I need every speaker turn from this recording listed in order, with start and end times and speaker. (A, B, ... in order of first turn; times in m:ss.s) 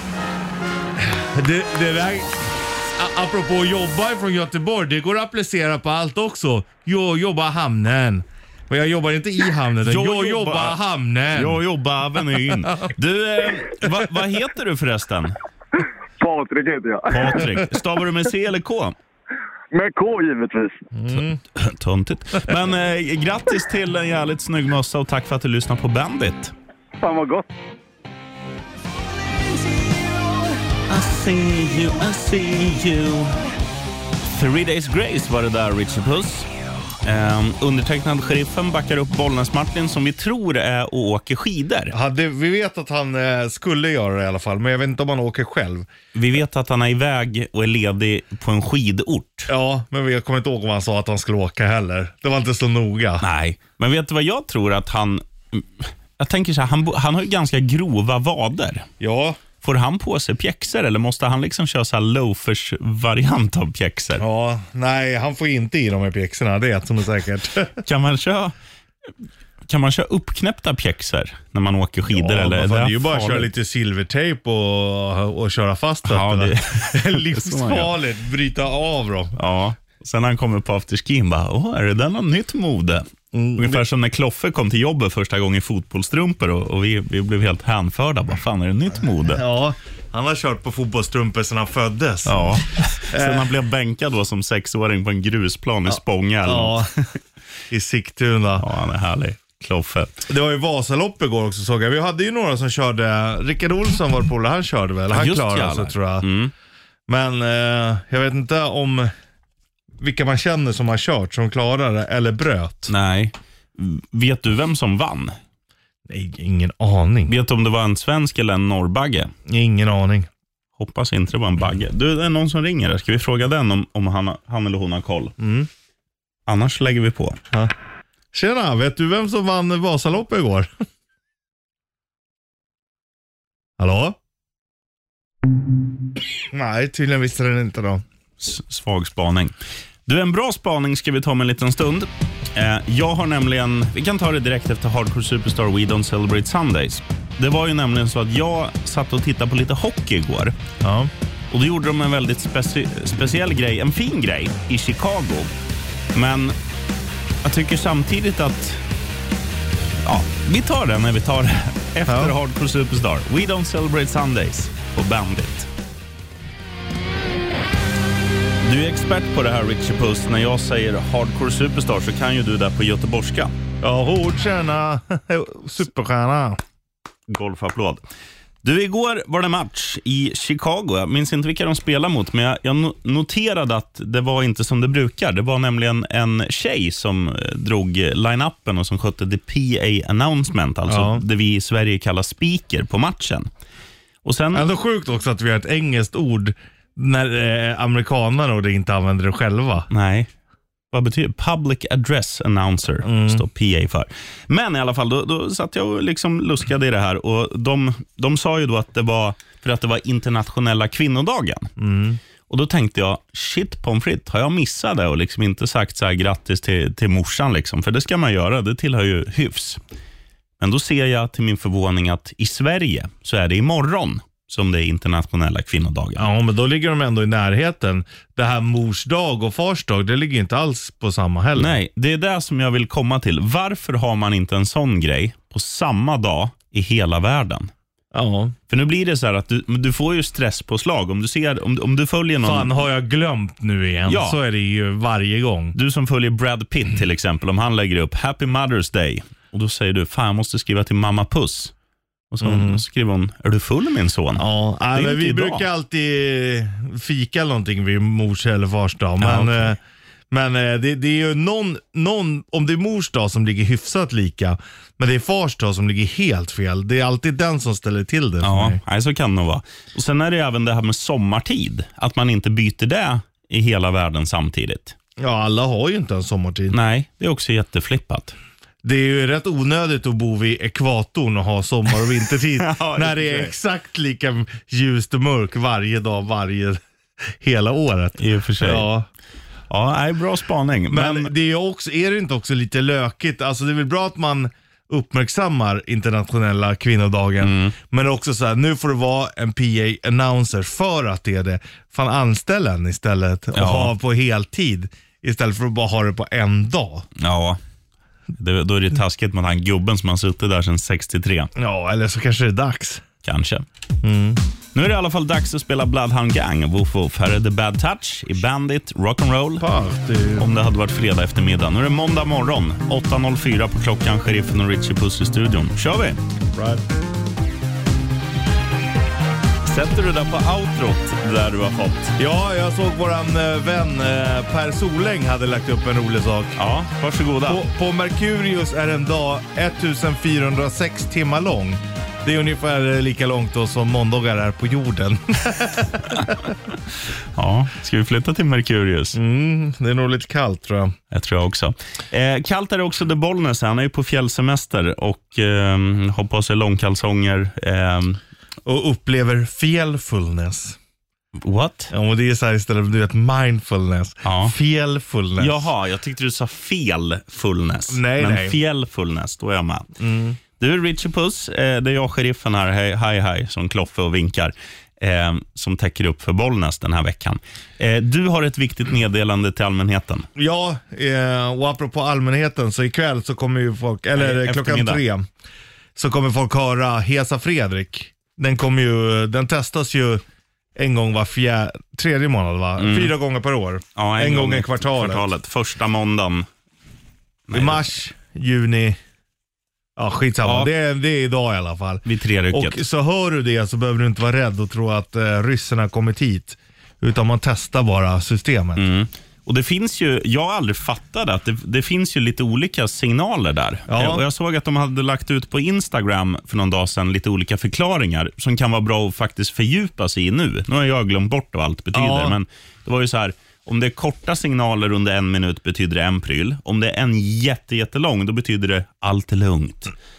0:01.0-0:02.3 A
0:03.0-0:11.6 A
0:09.8-0:10.8 B
0:11.3-0:15.4 B
0:16.2-0:17.6 C
0:17.1-0:18.9 B
0:19.7-0:20.8 C
0:20.9-0:21.4 A
0:21.1-0:26.5 B
0:27.0-0:27.5 C
0:30.9-0:33.4 B
0:34.2-0:36.5 B
0:37.0-0:41.9 B
0:41.9-0:45.9 A
0:46.1-0:49.5 B
0:49.5-0:53.2 A
0:53.2-0:58.9 B
0:59.0-0:59.4 A
0:59.6-1:04.2 B
1:04.2-1:07.8 A
1:07.8-1:08.5 B
1:09.6-1:13.5 B
1:12.1-1:19.4 A
1:16.0-1:17.9 B
1:19.4-1:23.0 B
1:23.3-1:23.8 A
1:23.6-1:29.4 B
1:29.2-1:33.5 A
1:32.2-1:36.8 B
1:35.9-1:36.9 A
1:37.7-1:38.6 A
1:38.6-1:40.2 B
1:40.3-1:46.3 A
1:45.1-1:46.5 B
1:47.1-1:49.1 A
1:50.0-1:52.9 A
1:52.9-1:55.4 B
1:56.1-1:57.3 A
1:57.3-1:59.3 B
1:59.5-2:00.3 A
2:00.8-2:05.3 B
2:05.4-2:05.7 A
2:06.5-2:07.4 B
2:08.3-2:10.7 A
2:13.8-2:14.2 A
2:16.5-2:18.0 A
2:18.4-2:19.5 B
2:20.1-2:30.5 B
2:30.8-2:31.1 A
2:31.5-2:35.5 B
2:36.1-2:36.6 B
2:37.4-2:38.8 B
2:40.0-2:45.7 B
2:42.0-2:42.3 A
2:48.6-2:53.5 B
2:53.8-2:56.6 A
2:57.3-2:58.0 B
2:58.6-3:13.5 B
3:10.9-3:11.2 A
3:14.2-3:14.6 B
3:14.5-3:19.9 A
3:19.9-3:20.3 B
3:20.9-3:31.7 B
3:23.0-3:23.4 A
3:31.8-3:32.2 A
3:32.5-3:39.8 B
3:40.6-3:46.2 B
3:46.2-3:51.8 A
3:51.6-3:57.7 B
3:58.1-3:58.5 A
3:58.7-4:02.7 B
4:02.4-4:05.8 A
4:04.0-4:04.4 B
4:05.7-4:11.7 B
4:12.3-4:15.6 B
4:12.4-4:12.8 A
4:14.4-4:19.8 A
4:19.2-4:19.8 B
4:20.3-4:28.8 A
4:28.4-4:35.0 B
4:35.2-4:36.8 A
4:36.7-4:38.4 B
4:38.8-4:49.1 A
4:42.5-4:43.5 B
4:48.2-4:48.9 B
4:49.7-4:51.3 B
4:50.9-5:07.1 A
4:57.4-4:57.7 B
5:03.5-5:03.9 B
5:07.2-5:07.6 B
5:08.4-5:11.5 B
5:11.6-5:13.0 A
5:13.2-5:13.6 B
5:14.0-5:14.4 A
5:14.7-5:19.6 B
5:19.6-5:20.5 A
5:20.4-5:26.2 B
5:26.5-5:26.8 A
5:29.6-5:32.2 B
5:32.2-5:36.6 A
5:36.6-5:37.6 B
5:37.4-5:46.5 A
5:47.3-5:49.2 B
5:49.1-5:50.9 A
5:51.1-5:58.2 B
5:58.6-6:00.8 A
6:01.4-6:01.9 B
6:01.9-6:05.7 A
6:04.2-6:04.5 B
6:05.4-6:09.9 B
6:07.9-6:08.6 A
6:10.0-6:10.4 A
6:10.6-6:20.3 B
6:20.4-6:25.3 A
6:24.2-6:25.0 B
6:26.0-6:30.2 A
6:30.8-6:35.3 A
6:32.8-6:33.1 B
6:34.0-6:36.5 B
6:37.5-6:37.9 B
6:37.5-6:39.0 A
6:40.0-6:48.9 A
6:40.4-6:40.7 B
6:42.0-6:42.8 B
6:48.8-7:09.9 B
6:53.9-6:54.2 A
7:01.9-7:02.4 A